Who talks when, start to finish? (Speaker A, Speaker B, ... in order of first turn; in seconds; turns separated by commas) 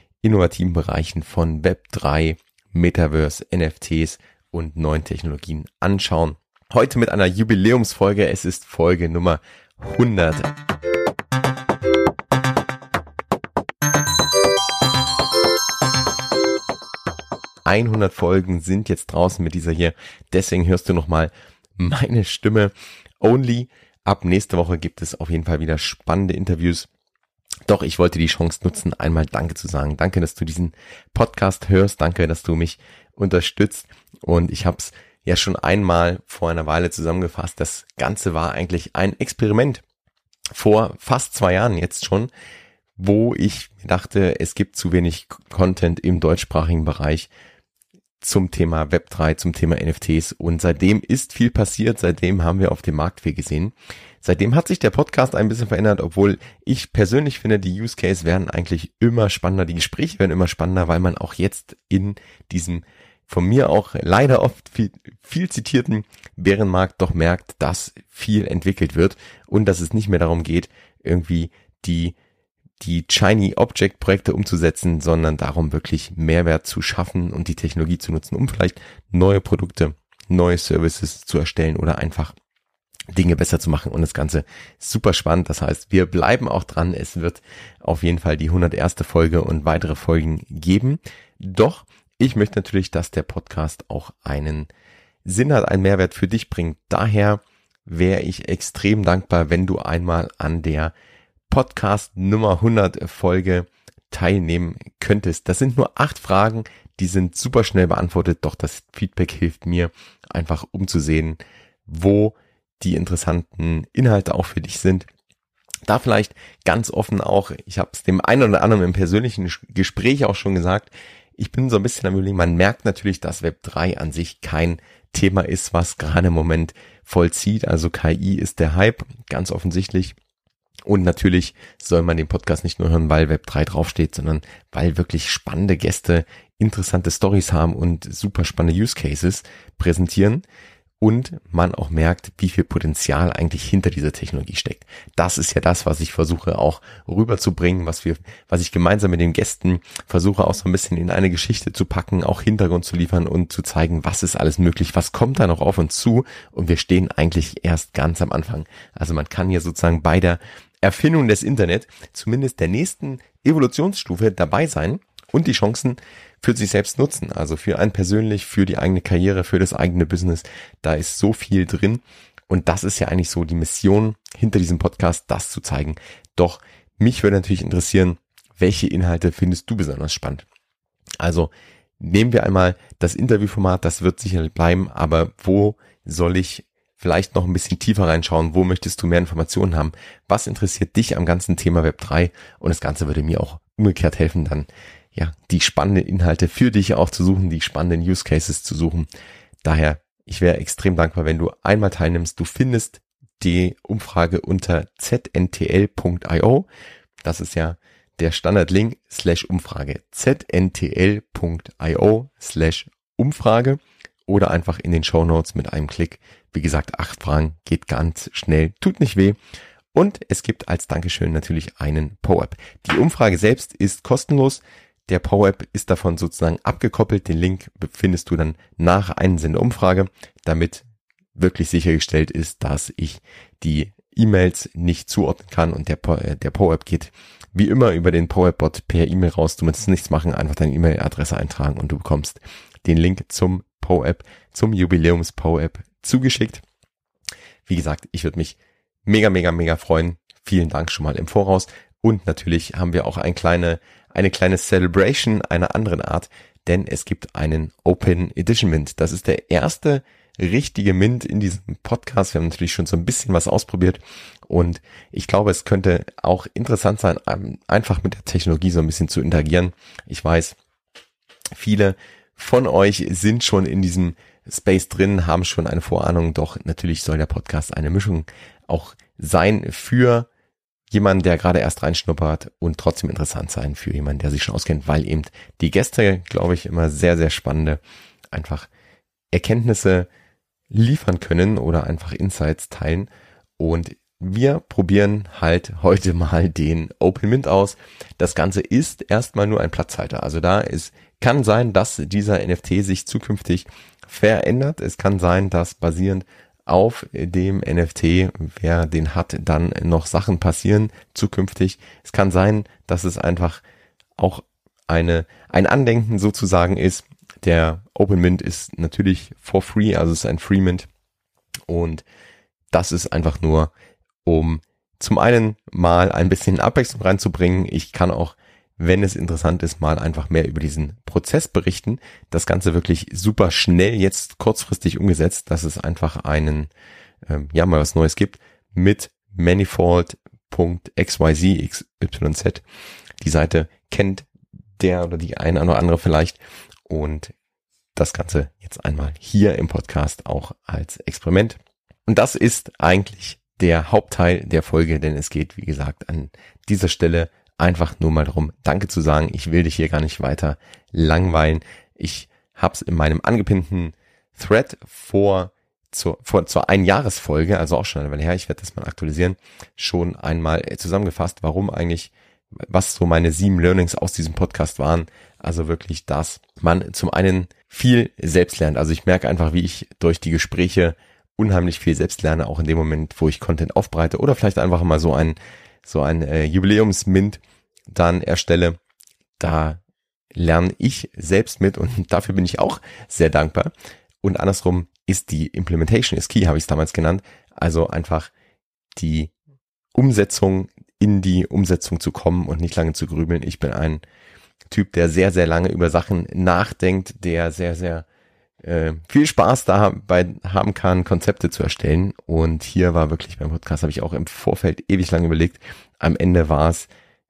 Speaker A: 0.2-10.5, Speaker A: 17.6-26.9, Speaker A: 27.6-39.8, Speaker A: 40.5-42.3, Speaker A: 43.0-47.3, Speaker A: 48.2-72.1, Speaker A: 72.8-82.3, Speaker A: 83.1-94.7, Speaker A: 95.2-100.9, Speaker A: 101.5-115.1, Speaker A: 115.9-130.2, Speaker A: 130.8-140.4, Speaker A: 141.0-180.4, Speaker A: 181.2-199.1, Speaker A: 199.6-206.7, Speaker A: 207.2-219.4, Speaker A: 219.9-230.8, Speaker A: 231.3-246.6, Speaker A: 247.7-270.6, Speaker A: 271.5-280.3, Speaker A: 280.9-287.8, Speaker A: 288.3-288.7, Speaker A: 289.3-290.1, Speaker A: 290.7-313.6, Speaker A: 314.2-320.9, Speaker A: 321.7-322.0, Speaker A: 322.7-323.7, Speaker A: 324.2-336.7, Speaker A: 337.2-342.6, Speaker A: 343.2-344.3, Speaker A: 344.8-347.3, Speaker A: 347.9-388.8, Speaker A: 389.4-389.8, Speaker A: 390.3-393.7, Speaker A: 394.2-398.3, Speaker A: 398.9-399.3, Speaker A: 399.9-404.0, Speaker A: 404.7-408.1, Speaker A: 408.6-416.9